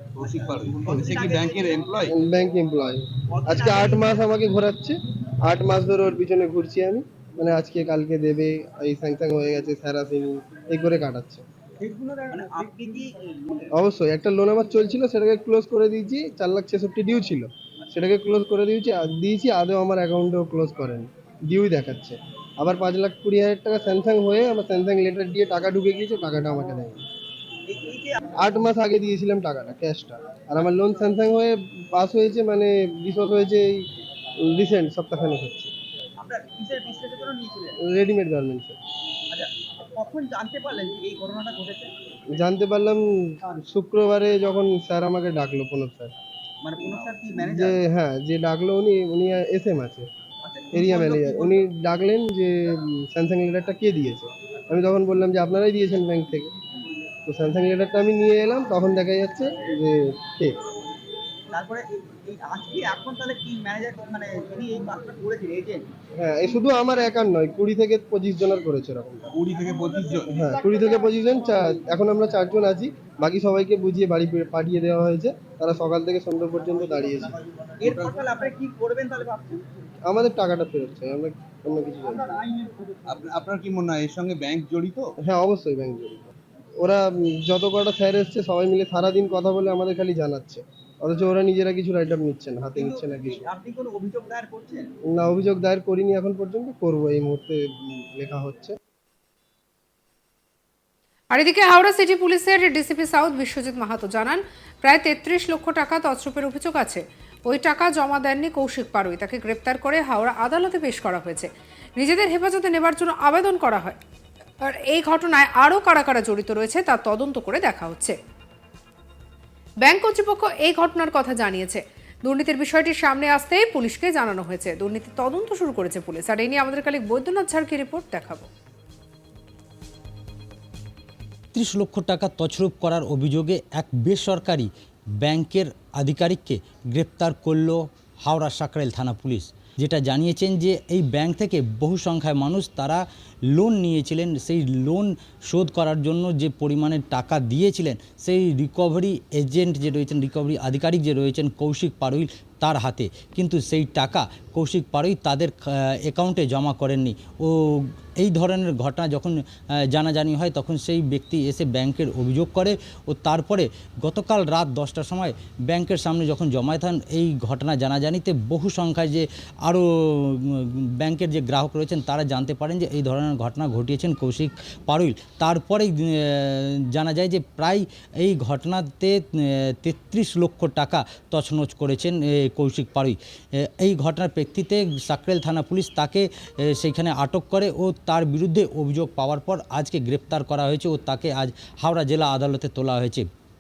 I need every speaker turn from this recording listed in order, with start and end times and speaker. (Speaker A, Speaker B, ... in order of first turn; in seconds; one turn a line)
Speaker A: 0.2-2.1
Speaker B: 0.2-1.9
Speaker C: 2.1-11.4
Speaker B: 3.3-4.2
Speaker B: 11.8-13.7
Speaker C: 13.8-27.0
Speaker B: 27.7-28.2
Speaker C: 28.4-33.8
Speaker C: 34.5-35.7
Speaker B: 36.2-37.8
Speaker C: 37.8-38.8
Speaker B: 39.3-41.9
Speaker C: 42.3-46.1
Speaker B: 46.6-47.8
Speaker C: 47.5-50.1
Speaker B: 50.4-51.6
Speaker C: 50.7-56.5
Speaker C: 57.3-60.6
Speaker B: 61.5-65.9
Speaker C: 66.2-69.3
Speaker A: 69.3-70.3
Speaker C: 70.3-77.4
Speaker B: 77.8-79.6
Speaker C: 80.1-82.3
Speaker A: 83.1-85.2
Speaker C: 85.2-93.4
Speaker B: 92.8-94.9
Speaker C: 95.1-98.8
Speaker D: 101.3-114.0
Speaker D: 114.6-118.2
Speaker D: 119.8-128.5
Speaker E: 131.5-193.2